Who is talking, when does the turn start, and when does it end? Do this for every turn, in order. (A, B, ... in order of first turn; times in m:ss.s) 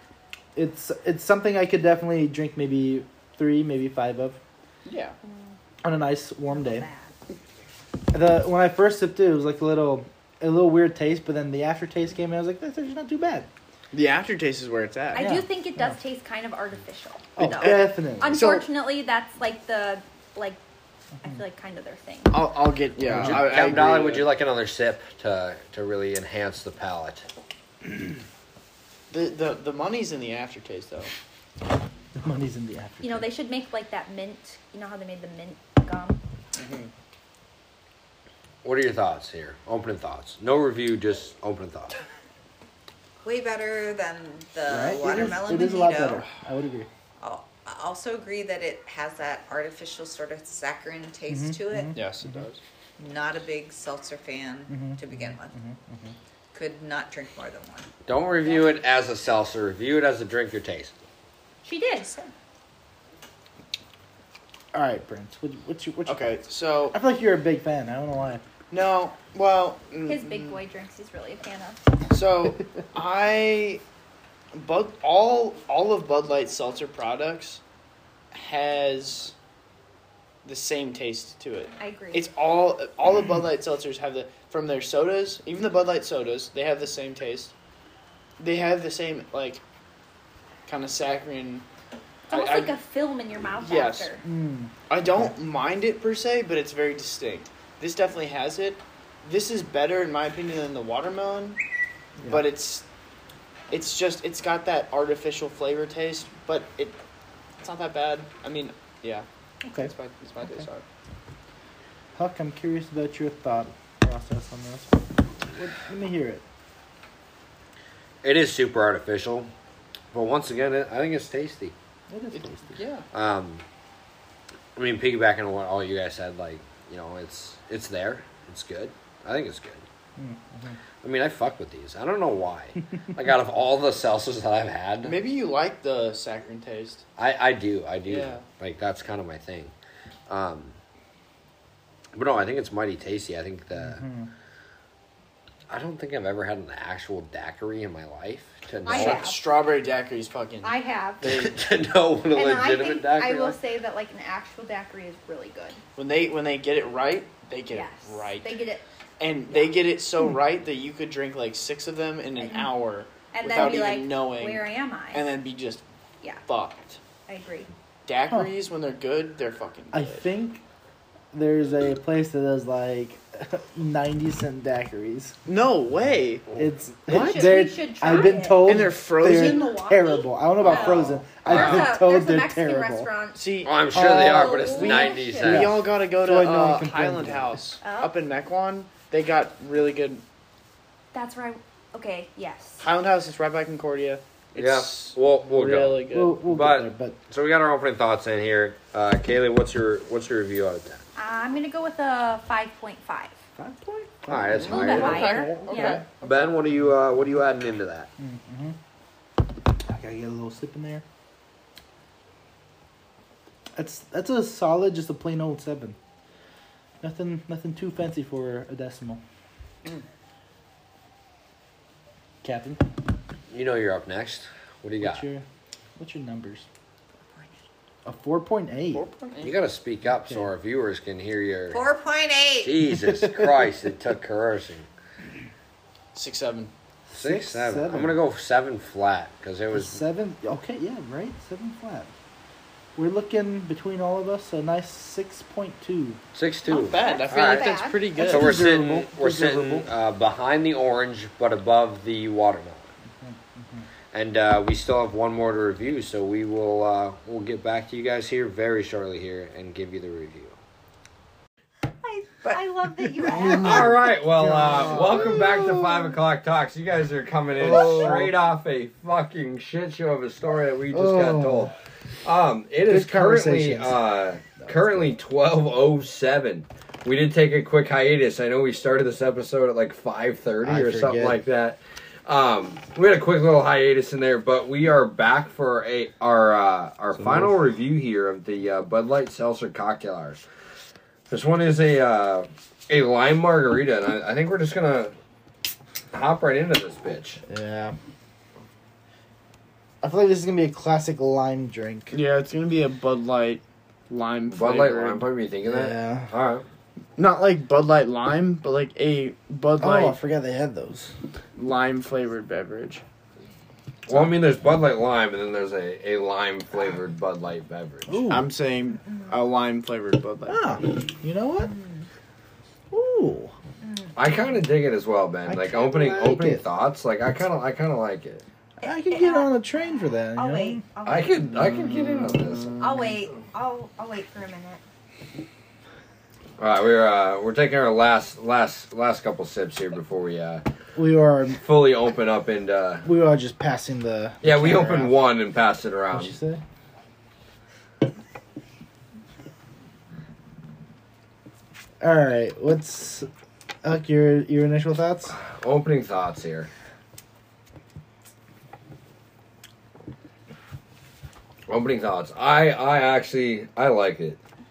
0:00.5-0:04.4 A
0:04.8-0:05.2 B
0:05.2-0:05.5 C
0:05.8-0:06.9 A
0:06.5-0:07.1 C
0:08.1-0:13.5 A
0:13.9-0:15.3 B
0:15.1-0:20.6 C
0:15.2-0:15.9 A
0:17.4-0:18.4 A
0:17.4-0:18.7 B
0:21.2-0:22.4 C
0:22.3-0:24.3 B
0:23.1-0:27.3 D
0:23.1-0:23.4 A
0:29.1-0:31.1 B
0:32.2-0:33.3 A
0:33.0-0:36.2 C
0:36.6-0:36.9 B
0:38.6-0:41.9 D
0:43.2-0:46.2 E
0:44.7-0:46.9 A
0:47.2-0:52.0 E
0:51.3-0:52.4 A
0:51.9-0:52.6 B
0:53.0-0:55.5 E
0:54.7-0:56.1 A
0:56.5-0:57.9 E
0:58.1-1:00.9 D
1:01.6-1:02.2 C
1:04.7-1:06.4 A
1:06.0-1:07.0 B
1:06.9-1:08.4 A
1:08.7-1:10.6 B
1:10.0-1:11.8 C
1:12.1-1:13.8 B
1:14.5-1:17.6 B
1:18.3-1:19.3 B
1:20.4-1:27.5 B
1:21.8-1:22.3 C
1:28.4-1:29.6 B
1:30.6-1:31.6 B
1:32.3-1:32.8 B
1:32.3-1:34.2 C
1:33.6-1:34.1 B
1:34.2-1:35.3 A
1:34.9-1:41.6 B
1:42.2-1:42.8 B
1:43.7-1:47.0 B
1:47.6-1:50.8 B
1:49.7-1:49.9 A
1:52.1-1:56.4 A
1:58.2-1:59.5 D
2:00.1-2:01.7 D
2:02.1-2:02.8 A
2:02.3-2:03.1 B
2:03.1-2:03.6 D
2:04.8-2:09.8 D
2:10.2-2:10.8 A
2:11.0-2:15.2 D
2:15.0-2:17.0 B
2:17.2-2:19.7 D
2:18.1-2:18.4 B
2:20.3-2:20.8 D
2:22.1-2:24.0 D
2:23.8-2:24.3 A
2:25.7-2:29.3 D
2:28.8-2:29.4 C
2:28.8-2:30.8 B
2:30.6-2:31.4 C
2:31.2-2:33.6 D
2:32.3-2:35.8 C
2:36.0-2:38.6 B
2:37.7-2:38.8 C
2:39.2-2:45.8 B
2:42.4-2:42.7 C
2:43.3-2:45.3 C
2:46.4-2:47.0 B
2:47.3-2:47.7 C
2:48.0-2:50.2 B
2:49.9-2:50.6 A
2:51.3-2:55.4 A
2:55.4-2:57.6 B
2:56.5-3:03.1 A
2:57.1-3:05.6 C
2:58.6-2:59.8 B
3:01.4-3:01.8 D
3:03.3-3:10.2 B
3:03.6-3:05.9 D
3:03.9-3:04.9 A
3:05.4-3:07.6 A
3:07.8-3:08.1 C
3:11.1-3:12.8 C
3:12.8-3:16.4 B
3:14.6-3:21.0 D
3:16.1-3:17.2 A
3:21.2-3:23.3 C
3:23.6-3:26.0 A
3:24.3-3:25.3 D
3:24.6-3:26.0 C
3:24.6-3:26.1 B
3:26.2-3:28.1 D
3:28.2-3:28.8 A
3:29.8-3:31.0 A
3:33.8-3:36.0 A
3:37.0-3:39.2 A
3:42.4-3:42.8 A
3:43.5-3:45.2 D
3:45.0-3:45.4 A
3:46.0-3:46.7 A
3:47.3-3:47.6 E
3:48.0-3:49.0 A
3:48.9-3:49.5 B
3:49.4-3:51.9 D
3:50.2-3:50.5 A
3:51.7-3:52.7 E
3:52.6-3:54.9 D
3:52.9-3:53.7 A
3:56.1-3:56.7 B
3:57.1-3:58.2 A
3:57.1-4:00.0 D
3:59.7-4:02.1 A
4:03.0-4:06.2 A
4:06.3-4:12.9 D
4:06.7-4:08.0 C
4:06.7-4:08.6 B
4:08.1-4:09.9 A
4:13.2-4:13.8 A
4:14.1-4:20.6 D
4:22.0-4:24.0 E
4:23.3-4:26.1 A
4:23.5-4:50.4 D
4:27.6-4:28.3 A
4:30.9-4:31.7 A
4:32.9-4:34.0 A
4:34.6-4:35.1 A
4:40.6-4:41.4 A
4:47.2-4:47.6 A
4:51.3-4:55.1 D
4:56.1-4:57.4 D
4:57.5-4:57.9 A
5:00.0-5:02.1 A
5:02.1-5:05.3 B
5:04.5-5:06.6 D
5:05.6-5:06.3 A
5:07.2-5:10.2 B
5:09.8-5:11.1 A
5:11.6-5:13.0 B
5:14.1-5:18.3 D
5:18.1-5:18.5 A
5:18.3-5:20.9 B
5:20.5-5:21.7 A
5:22.9-5:23.5 A
5:23.8-5:24.1 C
5:24.1-5:28.4 D
5:25.4-5:26.6 A
5:28.8-5:30.8 A
5:28.8-5:29.6 C
5:30.3-5:31.4 C
5:31.0-5:32.8 D
5:31.6-5:32.9 B
5:32.8-5:34.8 C
5:36.6-5:40.6 D
5:41.0-5:41.6 A
5:41.6-5:43.1 D
5:43.0-5:45.2 A
5:44.4-5:46.3 D
5:46.1-5:46.6 A
5:52.0-5:53.3 A
5:53.8-5:55.3 A
5:55.3-5:56.7 D
6:01.7-6:04.4 D